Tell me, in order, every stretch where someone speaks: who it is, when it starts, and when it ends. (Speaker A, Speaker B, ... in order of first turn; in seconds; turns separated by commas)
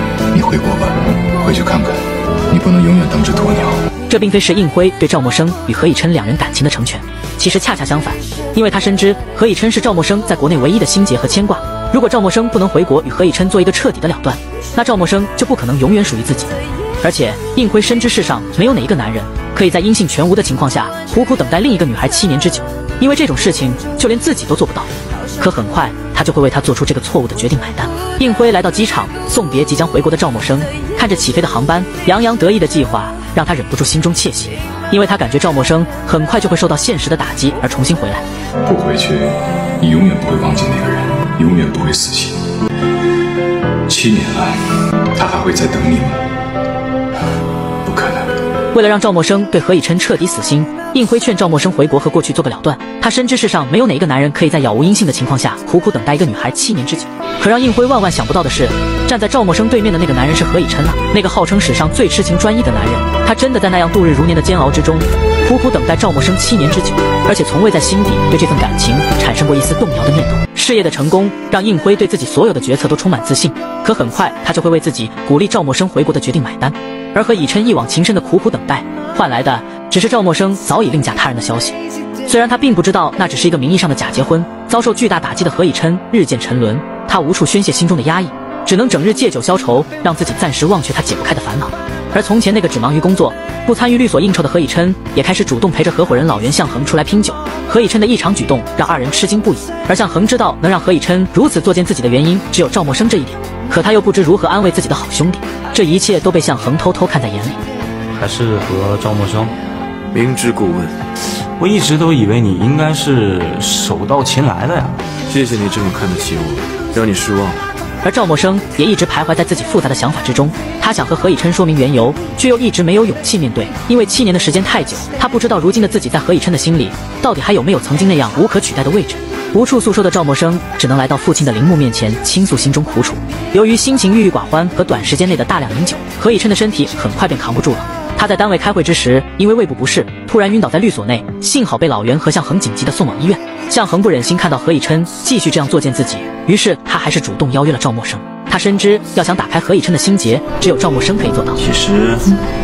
Speaker A: 0.3-3.8, Speaker B: 4.1-38.2, Speaker A: 38.6-42.4, Speaker A: 43.9-46.2, Speaker A: 47.8-48.4, Speaker B: 48.7-107.6, Speaker C: 108.2-109.5, Speaker D: 110.1-110.9, Speaker C: 111.6-115.0, Speaker D: 115.3-117.6, Speaker B: 118.0-151.6, Speaker C: 151.6-152.4